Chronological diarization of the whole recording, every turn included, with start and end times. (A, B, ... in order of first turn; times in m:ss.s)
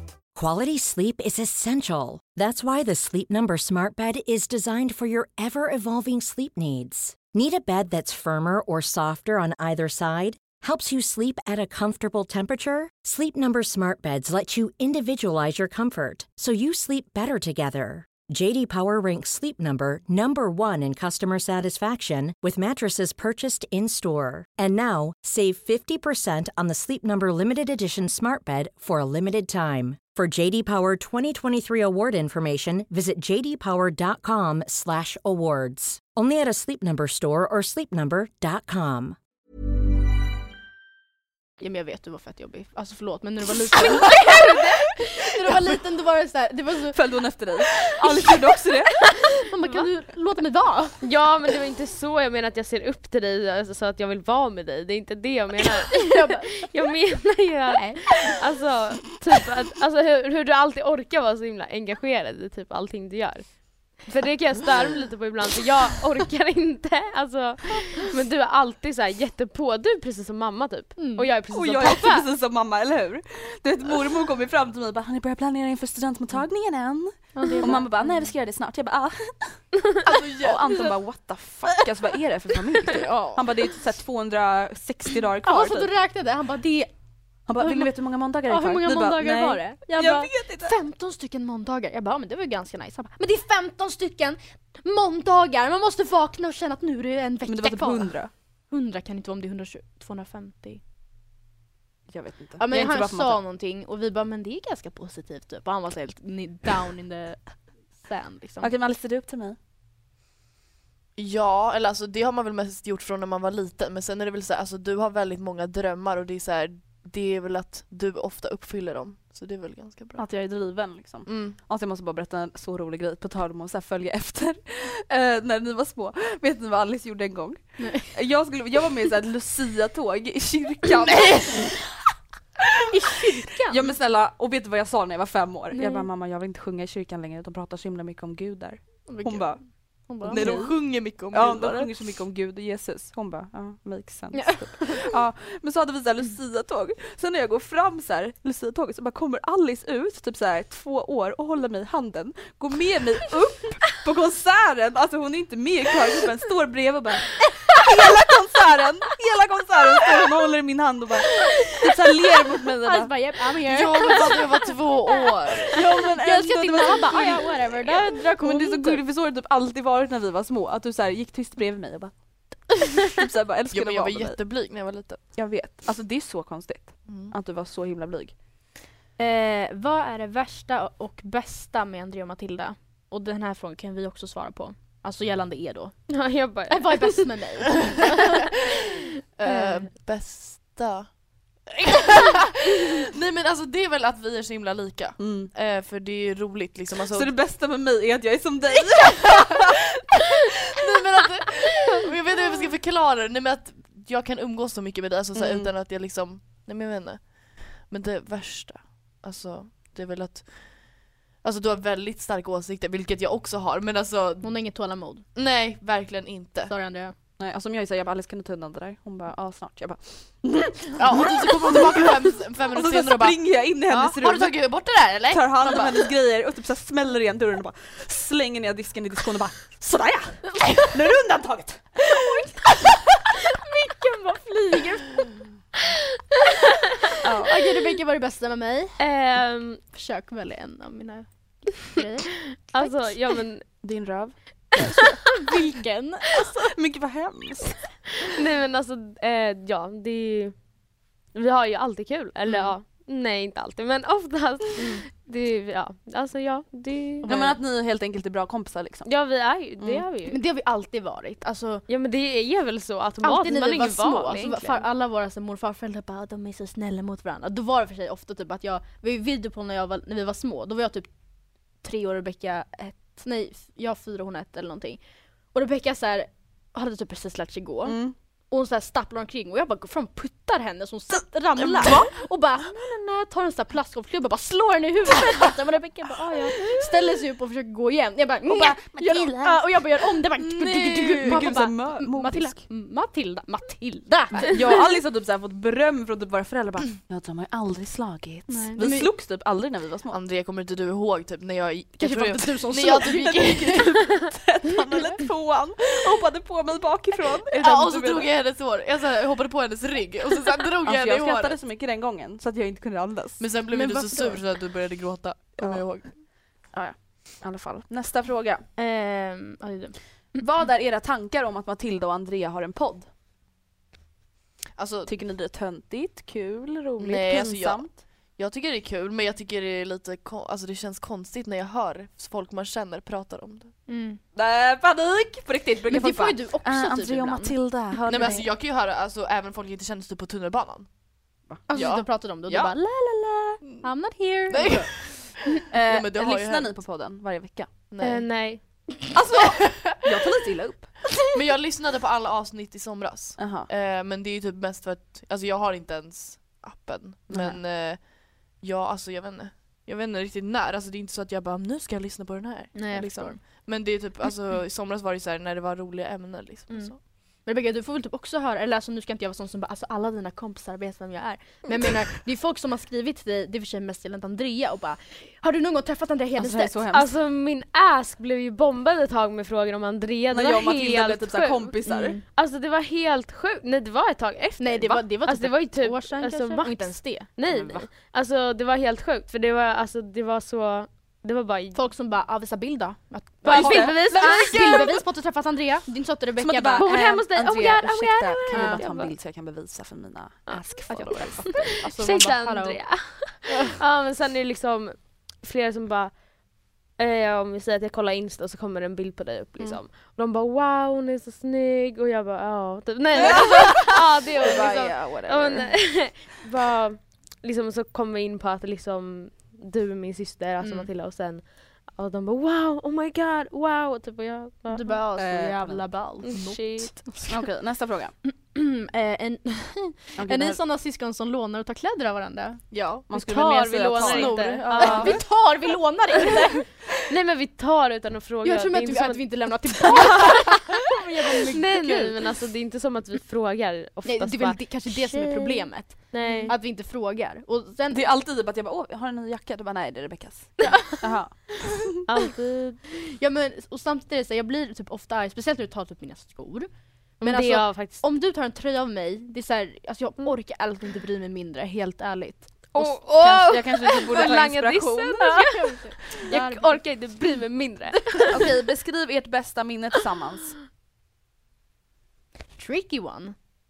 0:00.4-0:39.2 A
0:41.6-0:47.0 B
0:46.9-0:49.0 C
0:48.0-0:48.4 B
0:49.4-0:51.0 B
0:51.0-1:03.5 D
0:55.9-0:56.7 B
0:57.8-0:58.3 B
1:04.0-1:12.2 D
1:11.0-1:11.3 B
1:11.5-1:19.6 C
1:17.4-1:18.1 B
1:20.0-1:20.9 E
1:20.4-1:25.9 C
1:22.9-1:23.4 B
1:25.4-1:26.9 B
1:27.5-1:30.8 C
1:27.6-1:27.9 B
1:28.5-1:38.2 B
1:37.5-1:38.3 C
1:38.7-1:40.8 B
1:42.1-1:43.4 C
1:42.6-1:47.4 B
1:48.0-1:48.7 B
1:48.6-1:49.6 C
1:51.2-2:00.2 E
2:00.2-2:11.8 C
2:01.3-2:01.6 E
2:07.8-2:08.1 B
2:12.9-2:13.8 B
2:13.6-2:19.6 C
2:15.7-2:16.1 B
2:19.1-2:20.5 B
2:20.2-2:43.1 C
2:20.3-2:21.9 E
2:24.3-2:25.1 B
2:42.8-2:44.5 B
2:43.7-2:45.8 E
2:45.7-2:52.1 C
2:45.8-2:49.0 B
2:52.7-2:54.4 C
2:53.7-2:55.2 E
2:55.4-2:58.3 C
2:57.1-2:57.3 E
2:59.2-3:05.9 B
3:06.1-3:07.3 D
3:06.7-3:08.5 B
3:09.4-3:11.1 E
3:11.7-3:17.3 E
3:15.2-3:15.5 C
3:17.1-3:19.6 C
3:20.7-3:30.7 E
3:25.3-3:25.7 C
3:31.4-3:34.5 E
3:34.4-3:35.2 B
3:35.4-3:36.7 E
3:36.7-3:37.1 B
3:37.4-3:44.6 C
3:41.0-3:46.0 E
3:45.3-3:52.0 C
3:52.1-3:52.5 B
3:53.5-3:55.3 B
3:57.3-3:57.5 C
3:57.3-3:59.0 B
3:59.0-3:59.8 D
3:59.9-4:03.4 B
4:02.7-4:03.6 D
4:03.8-4:05.1 C
4:04.8-4:06.6 B
4:06.6-4:07.8 C
4:08.2-4:10.6 D
4:11.3-4:17.3 D
4:14.8-4:15.0 B
4:17.2-4:17.6 B
4:17.3-4:19.1 C
4:19.1-4:20.4 D
4:20.3-4:21.8 B
4:21.9-4:24.8 D
4:23.2-4:31.1 B
4:31.8-4:35.0 B
4:35.5-4:38.0 B
4:37.8-4:38.1 C
4:38.5-4:54.8 B
4:41.6-4:42.1 C
4:48.5-4:49.6 C
4:50.4-4:52.6 C
4:54.4-5:00.2 C
4:58.5-4:59.1 B
5:00.1-5:03.8 E
5:02.0-5:03.9 B
5:03.4-5:08.3 C
5:07.6-5:11.6 E
5:10.8-5:13.4 C
5:13.4-5:16.1 E
5:13.7-5:14.4 B
5:15.6-5:15.8 C
5:16.7-5:18.6 C
5:18.8-5:20.4 B
5:20.4-5:23.1 C
5:24.8-5:25.1 E
5:25.1-5:28.0 C
5:27.0-5:27.8 E
5:28.4-5:33.7 E
5:33.9-5:34.2 B
5:34.4-5:38.5 C
5:35.9-5:37.6 B
5:38.1-5:40.9 E
5:38.1-5:38.4 B
5:41.7-5:44.9 B
5:41.7-5:42.8 E
5:44.5-5:45.3 E
5:45.7-5:47.7 C
5:45.8-5:46.7 E
5:47.9-5:48.3 E
5:48.0-5:48.9 D
5:49.1-5:51.0 C
5:51.3-6:07.0 E
5:53.4-5:53.7 C
5:57.3-5:57.6 C
6:02.7-6:03.4 B
6:07.5-6:16.8 B
6:16.4-6:17.1 C
6:16.9-6:31.8 D
6:20.3-6:22.2 C
6:21.9-6:22.2 B
6:24.6-6:27.8 B
6:31.7-6:37.9 B
6:33.4-6:35.0 D
6:33.5-6:35.0 C
6:36.4-6:41.8 C
6:36.8-6:39.1 D
6:38.5-6:39.0 B
6:40.5-6:46.1 D
6:41.4-6:42.8 B
6:47.0-7:04.9 D
6:53.2-6:55.7 C
7:00.6-7:00.9 B
7:04.7-7:07.4 B
7:05.1-7:05.8 C
7:06.2-7:06.9 D
7:07.3-7:08.1 C
7:08.2-7:12.6 B
7:10.2-7:10.6 C
7:13.1-7:15.2 C
7:13.1-7:15.2 D
7:13.3-7:16.7 B
7:17.1-7:20.8 D
7:18.4-7:22.3 B
7:21.5-7:26.6 D
7:24.0-7:28.0 B
7:27.9-7:31.3 C
7:30.6-7:31.0 B
7:32.1-7:32.8 D
7:33.0-7:36.7 B
7:37.2-7:43.0 B
7:37.2-7:38.0 D
7:42.7-7:48.3 D
7:42.8-7:45.4 C
7:45.2-7:47.1 B
7:48.3-7:50.6 C
7:52.6-7:53.4 B